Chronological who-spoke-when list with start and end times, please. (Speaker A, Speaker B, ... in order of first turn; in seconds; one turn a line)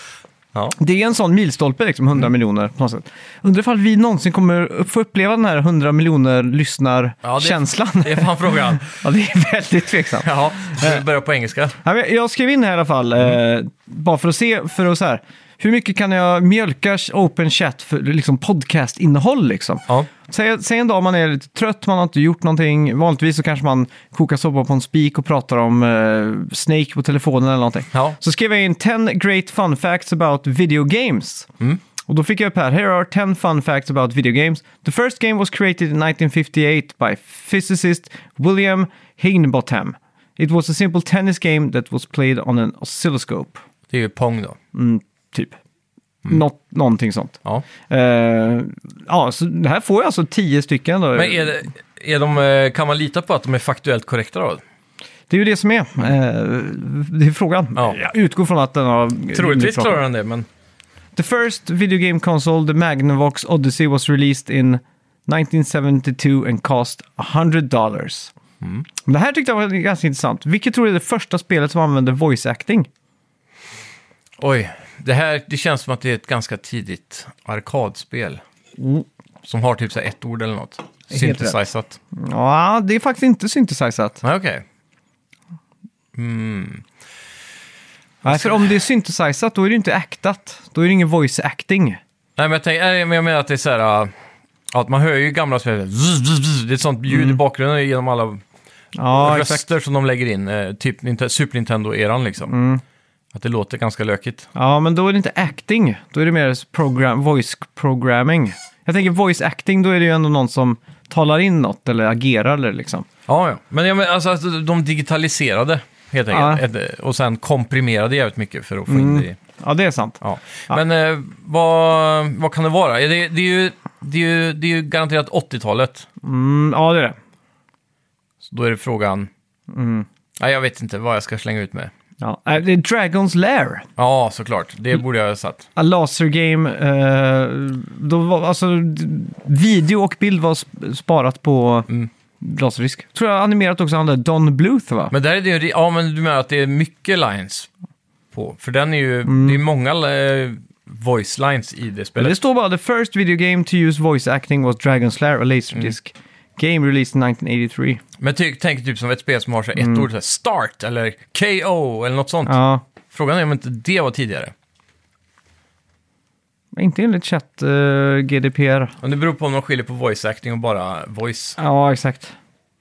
Speaker A: 0.8-11.0
Speaker B: 7.2-8.9
Speaker B: 10.2-11.8
Speaker A: 11.8-31.5
Speaker A: 32.1-43.6
Speaker B: 43.9-44.6
Speaker A: 44.7-45.6
Speaker A: 46.3-47.4
Speaker A: 47.9-51.6
Speaker B: 51.1-54.6
Speaker A: 55.3-60.0
Speaker B: 59.3-60.5
Speaker A: 61.2-68.3
Speaker A: 69.0-72.9
Speaker B: 74.4-78.4
Speaker A: 78.8-79.0
Speaker B: 79.4-82.0
Speaker A: 81.1-81.6
Speaker A: 82.1-84.2
Speaker B: 84.2-84.6
Speaker B: 86.2-86.8
Speaker A: 88.2-92.0
Speaker B: 88.3-88.7
Speaker B: 92.4-94.1
Speaker B: 94.7-98.4
Speaker A: 97.1-97.4
Speaker A: 99.0-99.7
Speaker B: 99.1-102.5
Speaker A: 102.5-102.8
Speaker B: 103.3-104.5
Speaker A: 104.5-113.1
Speaker B: 113.3-119.4
Speaker A: 116.3-116.6
Speaker A: 118.9-120.8
Speaker B: 120.2-126.1
Speaker A: 126.2-127.2
Speaker B: 128.4-129.3
Speaker A: 129.7-130.1
Speaker B: 130.4-131.9
Speaker A: 132.2-133.9
Speaker B: 134.0-135.7
Speaker A: 135.8-141.9
Speaker A: 142.4-145.1
Speaker B: 145.1-147.7
Speaker B: 148.3-152.4
Speaker A: 149.3-149.6
Speaker A: 152.2-158.0
Speaker B: 158.2-162.6
Speaker A: 159.8-160.1
Speaker A: 162.5-162.8
Speaker B: 163.1-164.5
Speaker A: 166.7-168.9
Speaker B: 169.0-171.6
Speaker A: 171.6-172.3